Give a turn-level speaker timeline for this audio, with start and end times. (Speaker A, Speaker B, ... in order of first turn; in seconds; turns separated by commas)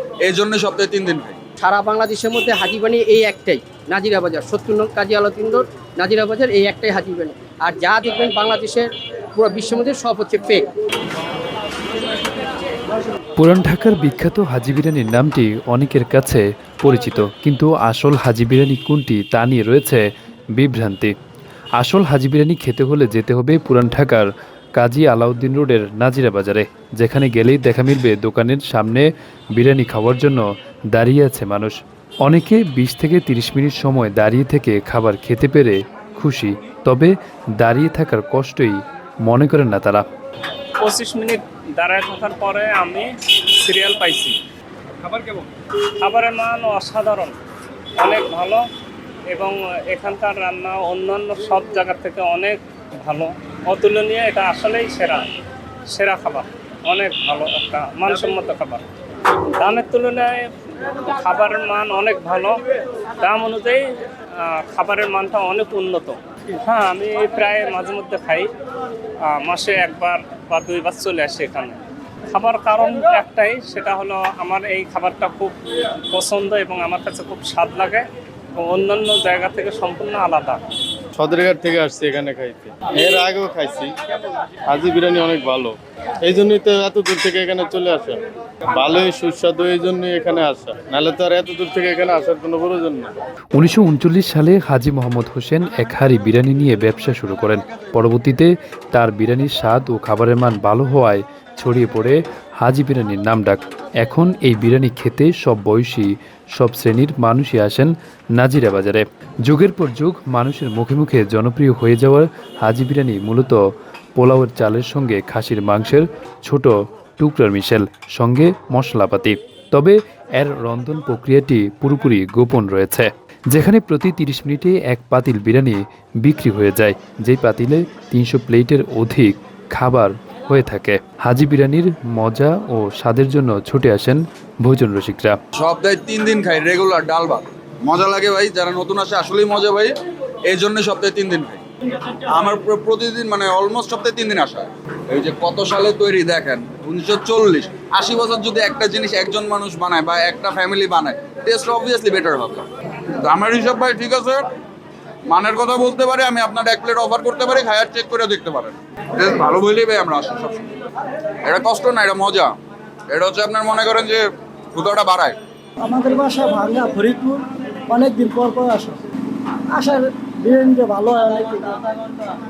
Speaker A: 0.2-1.4, Speaker B: 1.6-10.7, Speaker C: 13.4-21.1, Speaker C: 21.8-40.0, Speaker D: 40.8-44.4, Speaker D: 45.0-45.5, Speaker D: 46.0-47.3, Speaker D: 48.0-48.6, Speaker D: 49.3-55.3, Speaker D: 55.9-62.6, Speaker D: 63.2-68.5, Speaker D: 69.2-75.5, Speaker D: 76.1-78.0, Speaker D: 78.5-80.6, Speaker E: 81.2-83.9, Speaker E: 84.7-88.2, Speaker E: 88.7-93.1, Speaker C: 93.5-113.6, Speaker C: 114.2-135.4, Speaker A: 135.6-139.9, Speaker A: 140.5-154.5, Speaker A: 155.3-160.6, Speaker A: 161.4-162.6, Speaker A: 163.1-165.4, Speaker F: 165.8-169.0, Speaker F: 169.7-172.2